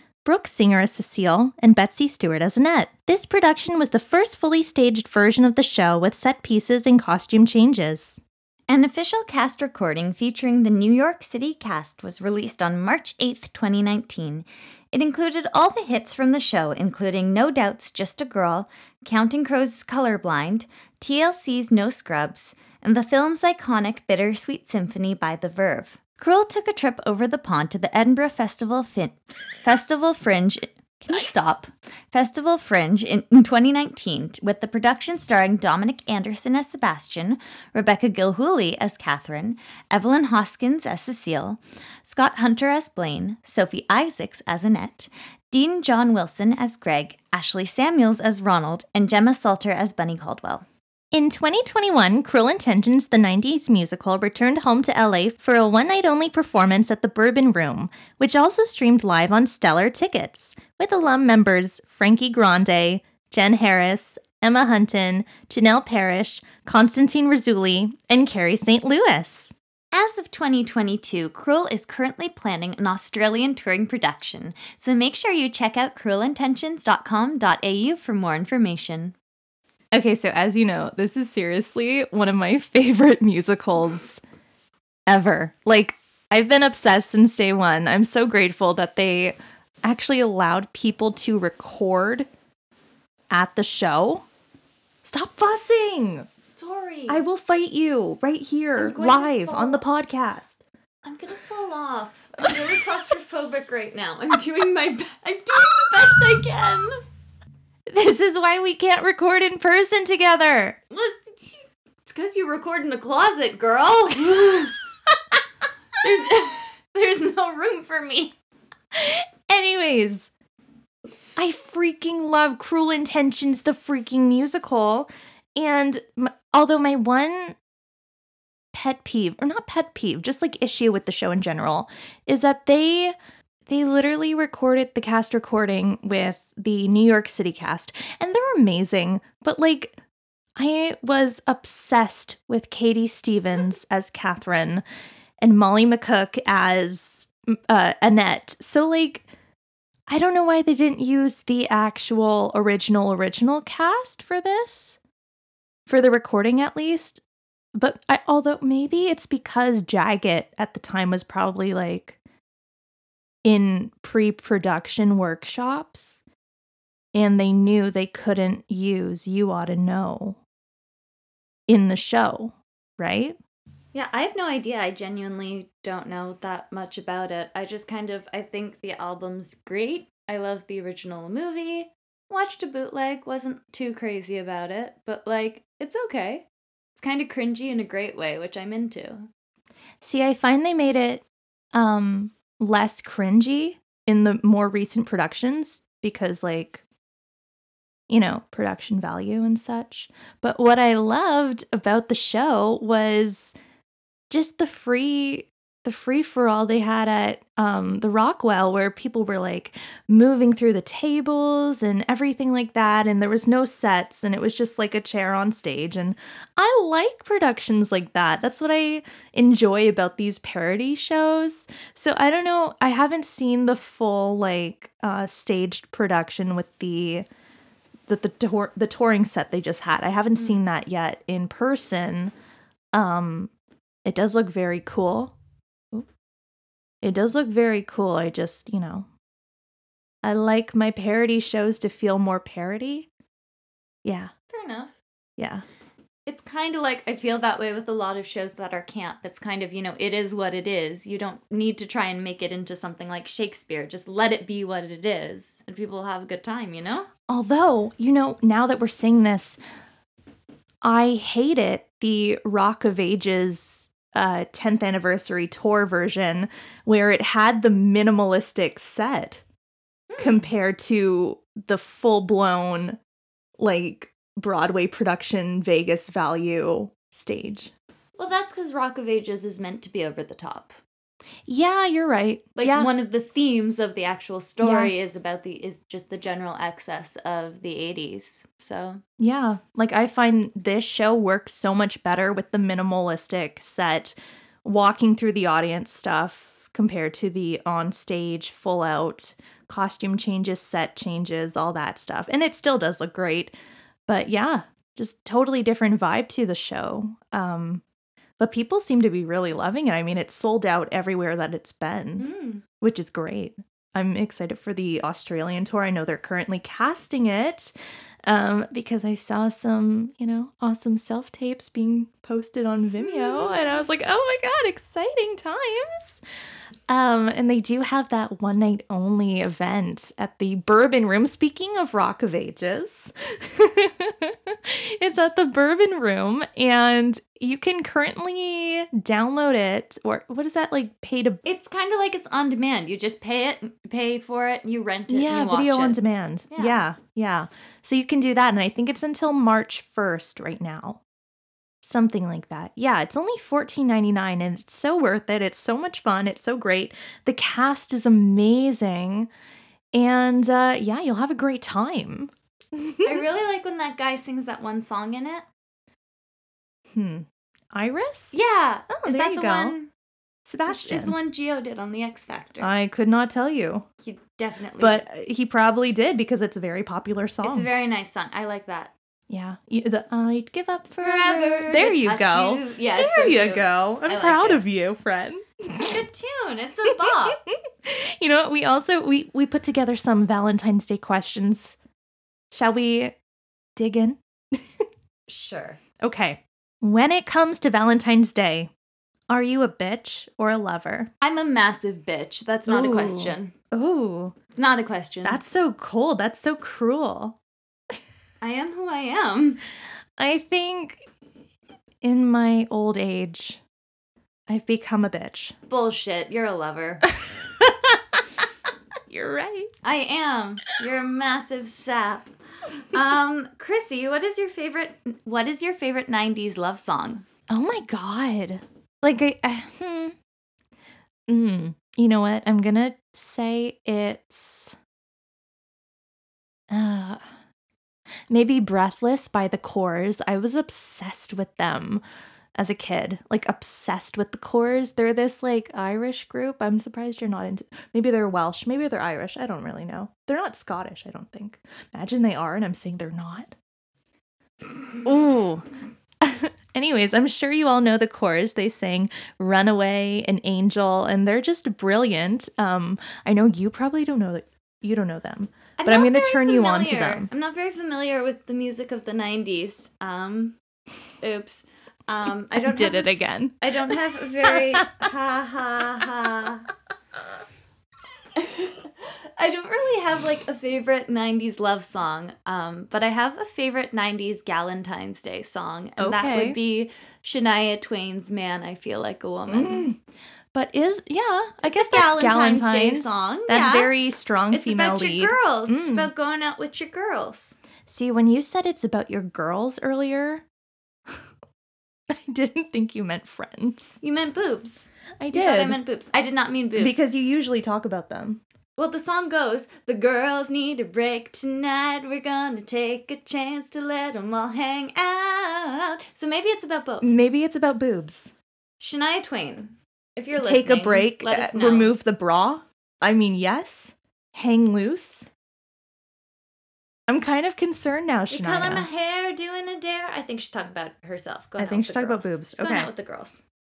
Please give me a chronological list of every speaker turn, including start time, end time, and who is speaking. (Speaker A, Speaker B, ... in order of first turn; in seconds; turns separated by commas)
Speaker A: 0.2-8.2, Speaker B: 8.7-50.7, Speaker A: 51.1-69.5, Speaker B: 69.9-79.2, Speaker A: 79.9-84.2, Speaker A: 85.1-92.3, Speaker A: 93.3-94.3, Speaker A: 95.0-96.3, Speaker B: 96.4-97.2, Speaker A: 97.1-100.6, Speaker B: 98.8-99.8, Speaker B: 101.0-107.0, Speaker A: 107.9-110.8, Speaker B: 110.9-114.8, Speaker B: 116.0-118.3, Speaker A: 118.9-120.3, Speaker A: 121.4-127.6, Speaker A: 128.7-133.1, Speaker A: 133.7-140.0, Speaker A: 140.6-144.8, Speaker A: 145.4-149.2, Speaker A: 150.1-155.0, Speaker A: 155.9-157.2, Speaker A: 157.8-162.2, Speaker A: 163.4-166.2, Speaker A: 167.1-170.4, Speaker A: 171.7-173.4, Speaker B: 173.9-186.4, Speaker B: 187.0-189.3, Speaker A: 190.0-196.8, Speaker A: 198.1-203.6, Speaker A: 204.3-227.3, Speaker A: 228.1-232.3, Speaker A: 232.9-233.5, Speaker A: 234.1-235.3, Speaker A: 237.0-239.1, Speaker A: 240.2-243.1, Speaker A: 244.0-244.3, Speaker B: 244.5-245.0, Speaker A: 245.4-245.6, Speaker B: 246.3-257.1, Speaker A: 257.3-259.6, Speaker A: 260.8-269.4, Speaker B: 270.1-270.5, Speaker A: 270.2-273.0, Speaker A: 273.6-277.7, Speaker B: 278.2-280.8, Speaker A: 281.5-282.9, Speaker B: 282.6-289.0, Speaker A: 284.6-284.9, Speaker A: 289.2-303.5, Speaker A: 304.1-307.8, Speaker A: 308.4-312.3, Speaker B: 312.2-312.6, Speaker A: 312.8-317.7, Speaker A: 318.2-326.2, Speaker A: 326.9-341.4, Speaker B: 341.4-346.8, Speaker A: 345.1-351.0, Speaker A: 351.8-359.3, Speaker A: 359.9-363.2, Speaker B: 363.0-365.5, Speaker A: 366.9-368.4, Speaker B: 368.3-369.9, Speaker A: 368.9-369.8, Speaker A: 370.4-371.1, Speaker B: 370.7-372.7, Speaker A: 372.6-373.9, Speaker B: 374.0-375.1, Speaker A: 374.8-377.7, Speaker B: 377.4-378.9, Speaker A: 379.3-386.0, Speaker B: 381.0-384.6, Speaker B: 385.8-387.4, Speaker A: 387.1-391.8, Speaker A: 392.5-393.2, Speaker A: 393.8-394.9, Speaker B: 395.3-395.8, Speaker A: 396.0-398.7, Speaker A: 399.3-401.1, Speaker B: 401.2-403.5, Speaker A: 402.7-404.4, Speaker B: 404.6-405.4, Speaker A: 405.2-407.4, Speaker B: 408.4-409.6, Speaker A: 410.2-411.0, Speaker A: 412.0-413.6, Speaker A: 414.5-415.6, Speaker B: 415.7-417.1, Speaker A: 417.6-418.0, Speaker A: 419.1-419.7, Speaker B: 419.8-427.2, Speaker A: 427.5-430.1, Speaker A: 431.3-434.8, Speaker A: 436.7-437.2, Speaker A: 438.3-442.0, Speaker A: 442.6-453.6, Speaker A: 455.0-455.7, Speaker A: 456.2-467.3, Speaker B: 465.8-470.6, Speaker B: 471.2-476.6, Speaker A: 472.6-473.9, Speaker A: 474.5-475.1, Speaker A: 475.8-476.6, Speaker B: 478.4-489.9, Speaker A: 486.0-486.6, Speaker A: 489.5-490.0, Speaker A: 490.5-496.1, Speaker B: 491.6-493.9, Speaker B: 494.5-497.6, Speaker A: 497.9-500.4, Speaker A: 502.1-504.0, Speaker B: 504.0-506.9, Speaker A: 505.2-505.8, Speaker A: 506.8-508.4, Speaker B: 508.8-517.1, Speaker A: 517.0-518.3, Speaker B: 518.8-521.9, Speaker A: 520.4-525.3, Speaker A: 527.1-528.9, Speaker B: 528.3-533.4, Speaker A: 531.6-532.9